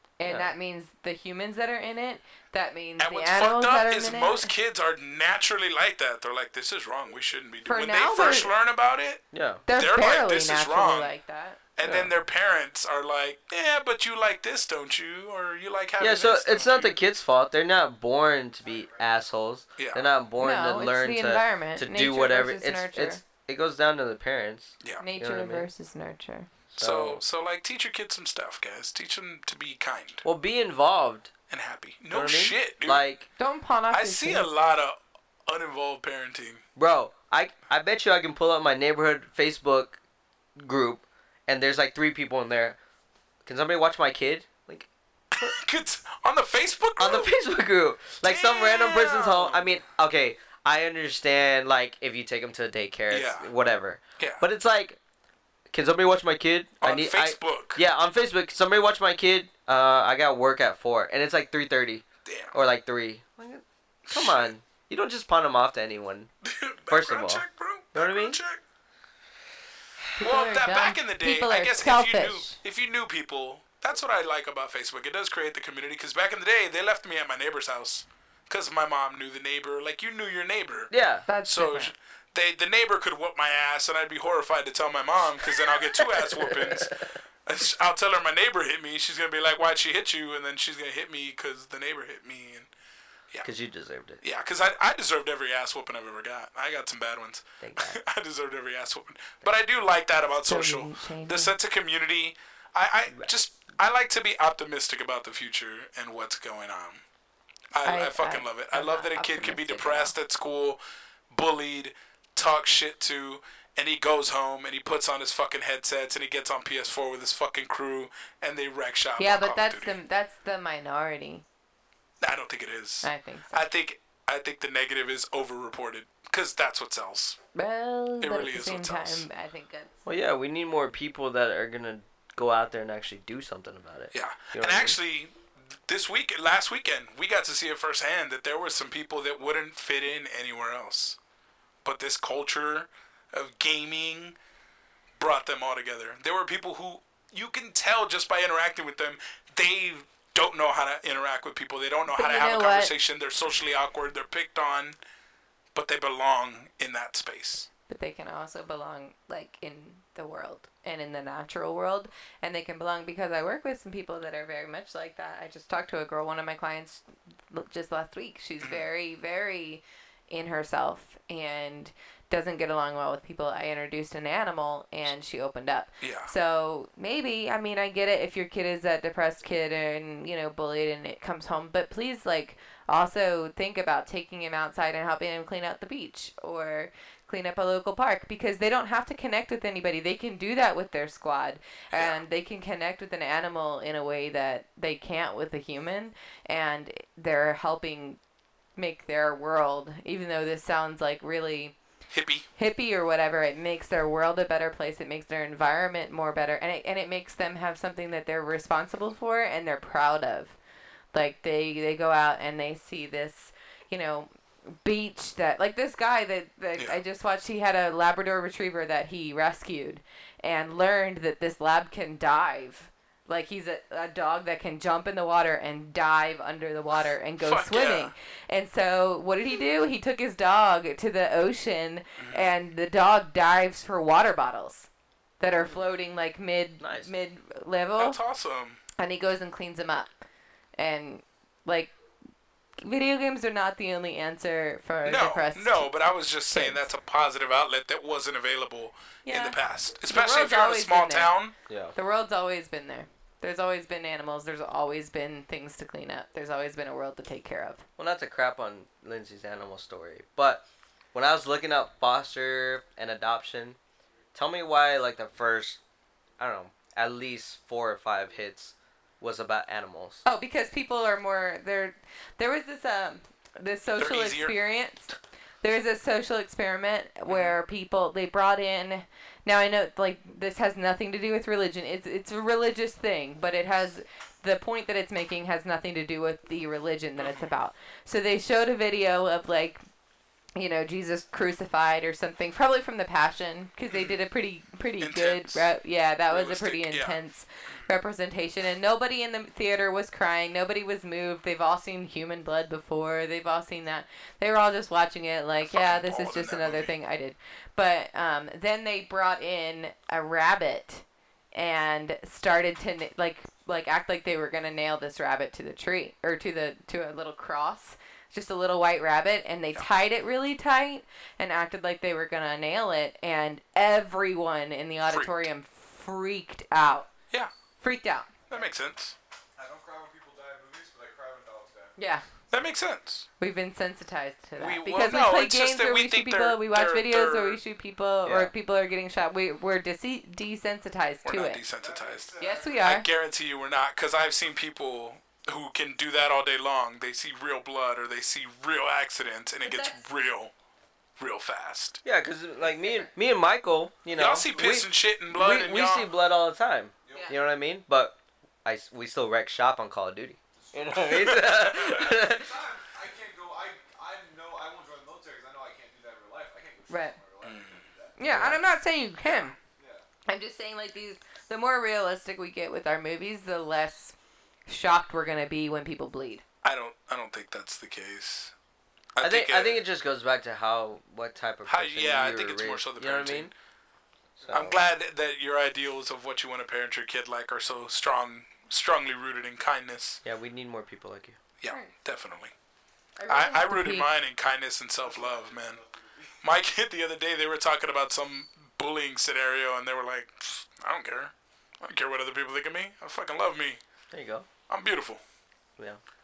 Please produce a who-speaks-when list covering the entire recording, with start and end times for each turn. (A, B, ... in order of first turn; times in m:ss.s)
0:00.2-0:04.5 A
0:00.2-0:00.5 B
0:03.0-0:09.2 C
0:07.6-0:08.5 A
0:09.3-0:09.6 B
0:09.7-0:11.6 A
0:09.7-0:11.1 C
0:11.8-0:17.0 C
0:11.8-0:12.1 B
0:16.0-0:25.7 B
0:18.6-0:19.1 D
0:19.8-0:20.1 C
0:20.4-0:23.2 A
0:25.0-0:26.5 A
0:26.7-0:30.2 C
0:26.8-0:27.2 B
0:30.2-0:31.3 B
0:31.5-0:33.0 C
0:32.1-0:33.3 B
0:33.4-0:34.5 A
0:33.9-0:36.6 C
0:36.8-0:40.0 B
0:40.6-0:42.8 B
0:43.4-0:44.9 B
0:45.3-0:47.3 C
0:47.0-0:55.0 B
0:48.2-0:49.8 C
0:53.1-0:53.5 C
0:55.7-1:06.3 B
0:56.8-0:57.8 C
1:02.2-1:02.6 C
1:04.1-1:04.5 C
1:06.4-1:08.6 C
1:06.9-1:08.4 B
1:10.2-1:12.6 A
1:10.2-1:20.9 C
1:20.9-1:21.3 B
1:21.3-1:21.9 A
1:21.4-1:26.9 C
1:26.2-1:27.1 B
1:27.4-1:32.7 C
1:33.4-1:34.2 B
1:34.2-1:47.0 C
1:37.6-1:38.0 B
1:40.4-1:41.5 A
1:47.7-1:50.8 C
1:47.8-1:50.1 A
1:51.3-2:00.0 C
1:59.2-2:01.4 A
2:02.2-2:07.4 C
2:03.0-2:03.6 A
2:07.5-2:10.0 A
2:08.2-2:09.2 C
2:10.0-2:15.0 B
2:14.1-2:21.2 C
2:21.8-2:24.4 C
2:25.2-2:35.0 C
2:32.1-2:32.9 A
2:35.7-2:37.7 C
2:37.9-3:18.2 A
2:56.0-2:56.3 C
3:11.9-3:12.2 C
3:18.8-3:21.8 A
3:22.1-3:22.4 C
3:22.6-3:30.6 A
3:31.1-3:54.9 A
3:47.4-3:48.1 C
3:52.2-3:52.5 C
3:55.4-3:58.2 A
3:56.8-3:57.1 B
3:58.0-3:58.8 C
3:59.0-4:00.1 A
4:00.8-4:01.9 A
4:02.8-4:05.9 A
4:05.0-4:11.5 C
4:06.5-4:06.8 A
4:09.2-4:09.6 A
4:10.1-4:11.3 A
4:11.7-4:11.9 B
4:11.9-4:17.8 A
4:18.0-4:23.8 B
4:24.3-4:25.8 B
4:26.4-4:30.2 B
4:30.2-4:49.8 A
4:34.0-4:34.5 C
4:37.3-4:37.5 C
4:47.2-4:47.5 C
4:50.6-5:27.1 A
4:53.9-4:54.2 C
4:55.0-4:55.7 C
4:56.3-4:57.2 C
5:05.6-5:06.9 C
5:25.0-5:25.3 C
5:27.8-5:28.4 A
5:28.5-5:29.1 C
5:29.6-5:31.9 D
5:32.0-5:32.2 A
5:32.5-5:33.2 C
5:33.4-5:41.6 A
5:34.6-5:37.6 C
5:41.2-5:50.5 C
5:41.8-5:42.9 D
5:42.4-5:43.0 A
5:49.6-5:50.1 A
5:51.2-5:52.0 C
5:52.0-6:02.5 B
5:52.6-5:53.1 A
5:54.1-5:56.1 C
5:54.5-5:54.8 D
5:57.0-5:57.4 D
5:57.1-5:57.4 A
6:00.5-6:08.2 D
6:06.9-6:07.2 A
6:07.4-6:07.8 C
6:08.2-6:09.5 A
6:08.3-6:08.6 B
6:09.2-6:09.5 C
6:09.8-6:10.0 D
6:10.3-6:14.1 A
6:14.7-6:16.4 A
6:16.6-6:18.5 C
6:19.1-6:19.8 C
6:19.2-6:23.5 B
6:21.6-6:23.5 C
6:24.4-6:24.8 B
6:24.4-6:24.7 D
6:24.5-6:30.2 C
6:30.2-6:31.4 B
6:31.6-6:32.5 C
6:31.7-6:31.9 A
6:33.2-6:34.1 A
6:33.3-6:35.8 C
6:35.0-6:36.4 D
6:36.4-6:43.8 C
6:44.1-6:44.5 B
6:44.7-6:45.2 C